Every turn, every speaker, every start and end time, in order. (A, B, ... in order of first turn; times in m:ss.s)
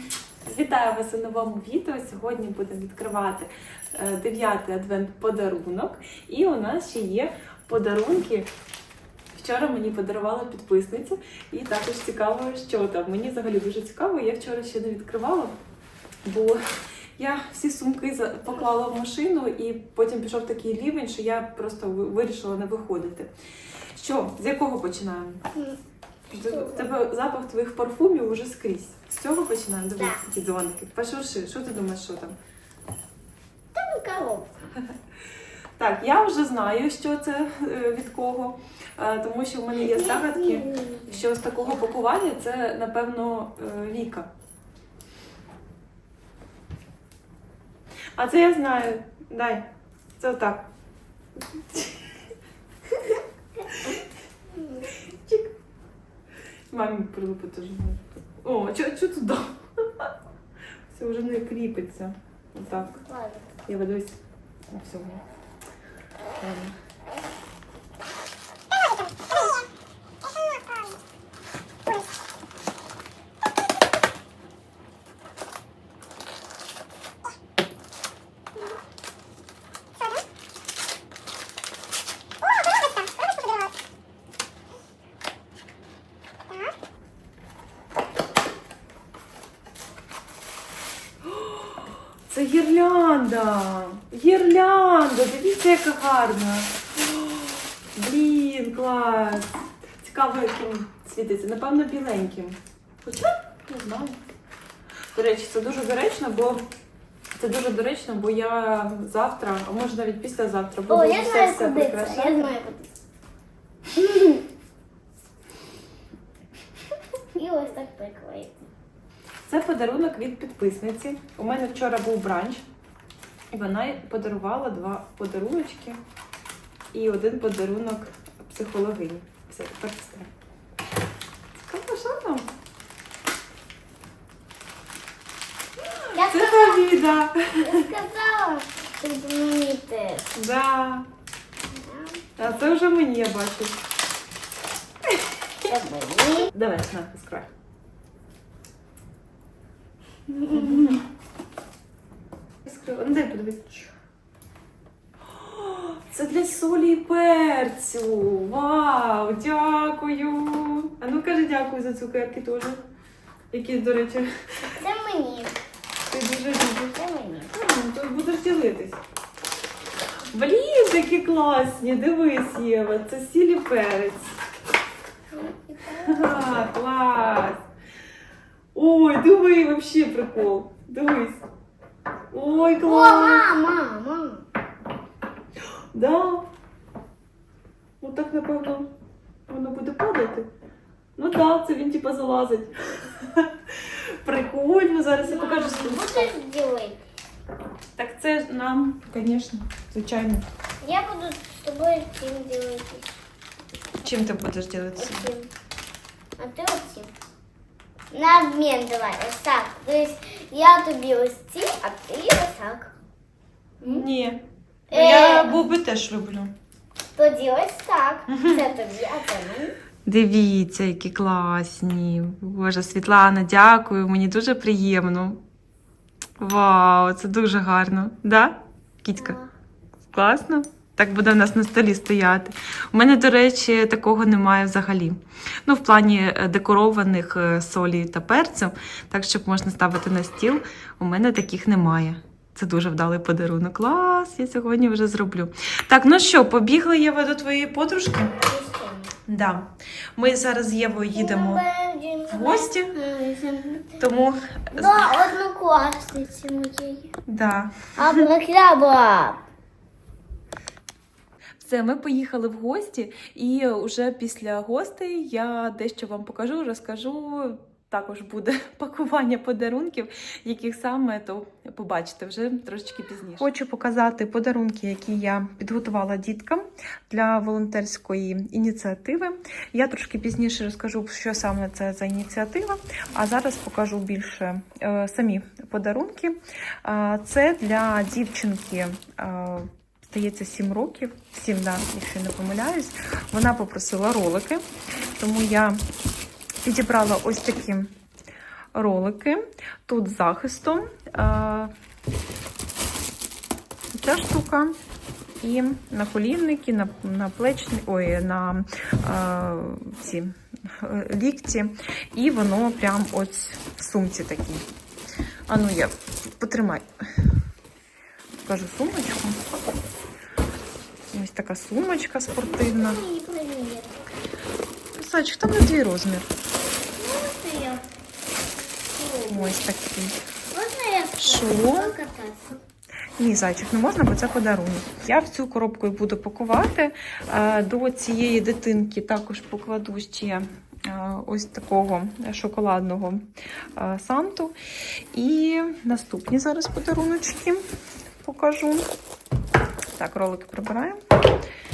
0:00.4-0:08.5 A
0:09.3-0:15.6 A
0:16.2-0:16.6 A
0:17.2-0:23.3 A
0:23.9-0:25.4 A
0:26.3-0:32.4 A
0:26.3-0:26.9 B
0:33.7-0:34.7 B
0:35.8-0:44.3 A
0:39.7-0:41.8 B
0:48.2-0:50.7 A
0:51.7-0:52.1 A
0:54.6-0:54.9 B
0:55.0-0:55.5 A
0:56.7-1:00.1 A
1:00.9-1:03.0 A
1:02.7-1:03.5 B
1:03.6-1:04.2 A
1:04.7-1:05.2 A
1:06.4-1:06.8 A
1:31.2-1:36.8 A
1:37.9-1:44.2 A
1:45.1-1:46.7 A
1:47.4-1:52.6 A
1:50.9-1:52.9 B
1:57.4-1:58.6 B
1:59.5-2:02.6 A
2:03.5-2:06.0 A
2:06.9-2:10.3 A
2:11.6-2:12.5 A
2:16.0-2:17.9 A
2:16.2-2:16.9 B
2:17.6-2:20.3 B
2:20.3-2:21.1 A
2:21.7-2:22.2 B
2:22.4-2:23.8 A
2:25.7-2:26.5 B
2:26.5-2:27.5 A
2:30.5-2:31.1 A
2:32.6-2:33.9 A
2:35.4-2:42.8 A
2:43.5-2:44.3 A
2:44.7-2:45.6 B
2:46.1-2:47.0 A
2:47.0-2:47.5 B
2:47.5-2:49.0 A
2:50.3-2:54.4 A
2:55.3-2:56.5 B
2:56.0-2:57.6 A
2:58.7-3:01.5 A
3:02.3-3:03.5 A
3:02.7-3:04.4 B
3:05.7-3:06.5 A
3:08.0-3:08.9 A
3:09.5-3:10.5 A
3:11.2-3:16.4 A
3:15.2-3:17.0 B
3:18.0-3:20.5 A
3:20.8-3:23.2 B
3:24.0-3:25.3 A
3:25.0-3:25.5 B
3:26.4-3:27.1 B
3:28.1-3:32.9 B
3:33.8-3:36.5 A
3:34.9-3:35.6 B
3:37.2-3:39.8 B
3:38.3-3:38.7 A
3:40.0-3:45.4 A
3:46.4-3:49.4 A
3:49.2-3:49.5 B
3:50.1-4:08.4 A
4:08.4-4:09.1 B
4:09.3-4:11.7 A
4:11.1-4:14.0 B
4:12.3-4:13.0 A
4:14.0-4:15.2 A
4:14.8-4:17.1 B
4:17.3-4:18.2 A
4:18.0-4:19.4 B
4:21.6-4:54.6 A
4:55.1-4:55.8 A
4:56.6-4:57.9 A
4:58.7-5:01.7 A
5:04.0-5:04.8 A
5:05.4-5:14.7 A
5:15.5-5:17.1 A
5:18.4-5:19.5 A
5:21.1-5:23.0 A
5:22.4-5:24.0 B
5:24.9-5:26.3 A
5:27.0-5:27.8 B
5:28.9-5:29.6 B
5:29.3-5:30.2 A
5:30.5-5:32.6 B
5:31.2-5:32.0 A
5:33.2-5:44.6 A
5:45.1-5:47.6 A
5:48.2-5:48.9 A
5:50.0-5:51.0 A